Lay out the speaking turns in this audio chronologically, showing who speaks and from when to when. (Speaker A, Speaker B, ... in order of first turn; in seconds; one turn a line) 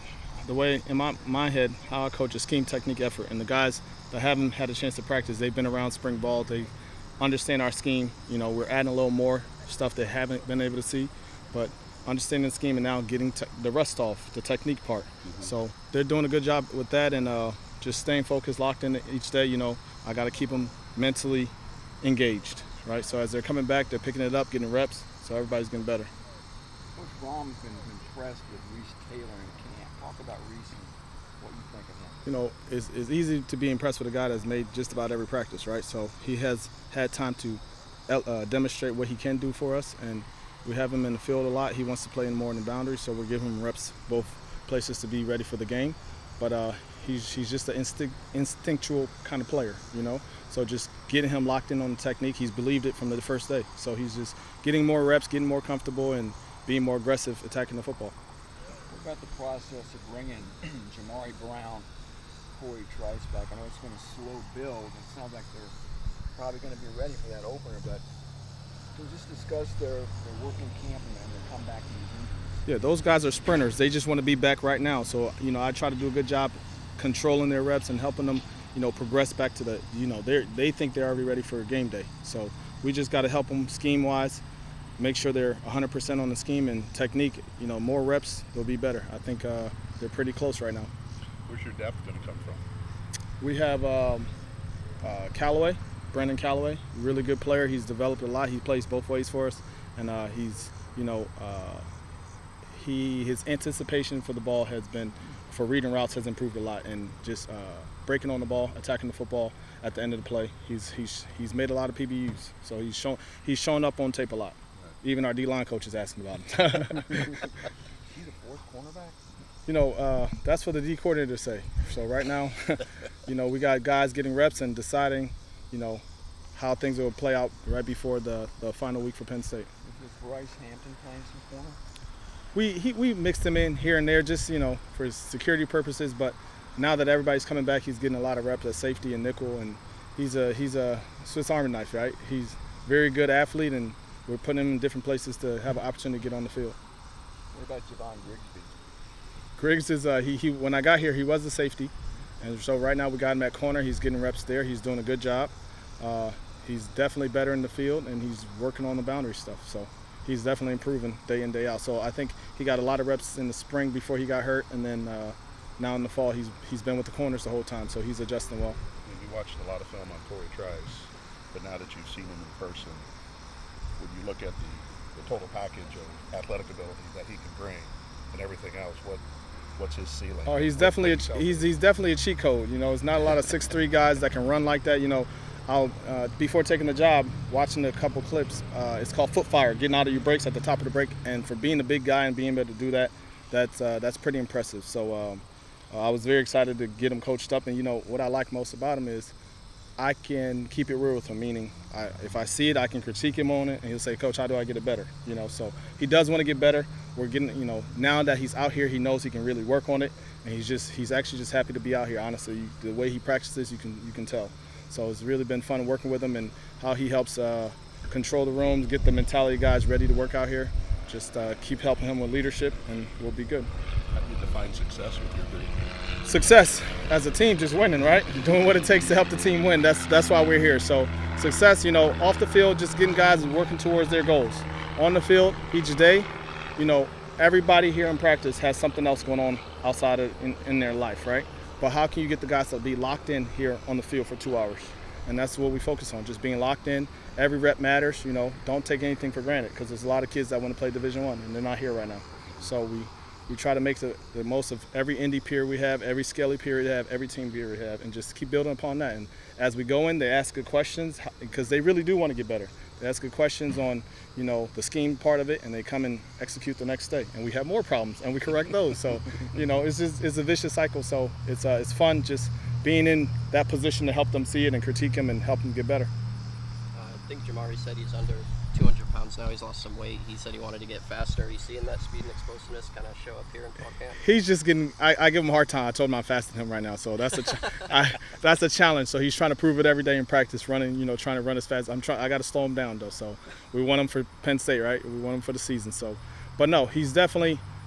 Speaker A: 0.4-26.1
Speaker B: 15.2-15.5
Speaker C: 26.9-32.2
Speaker A: 32.3-58.1
Speaker C: 58.9-61.9
Speaker C: 62.5-65.8
Speaker C: 66.3-68.0
Speaker C: 69.0-72.6
Speaker A: 72.7-84.4
Speaker A: 85.0-90.9
Speaker B: 91.5-92.6
Speaker A: 93.4-94.3
Speaker A: 95.0-101.9
Speaker A: 102.7-117.4
Speaker C: 118.0-119.2
Speaker A: 119.7-126.0
Speaker A: 126.5-129.7
Speaker C: 129.8-131.8
Speaker A: 132.5-146.8
Speaker C: 147.5-148.7
Speaker A: 149.6-168.8
Speaker B: 169.1-173.1
Speaker B: 174.0-179.2
Speaker B: 179.8-181.7
Speaker A: 180.5-199.3
Speaker A: 200.0-223.7
Speaker B: 224.1-225.9
Speaker A: 226.2-276.1
Speaker D: 276.9-284.2
Speaker A: 284.2-297.6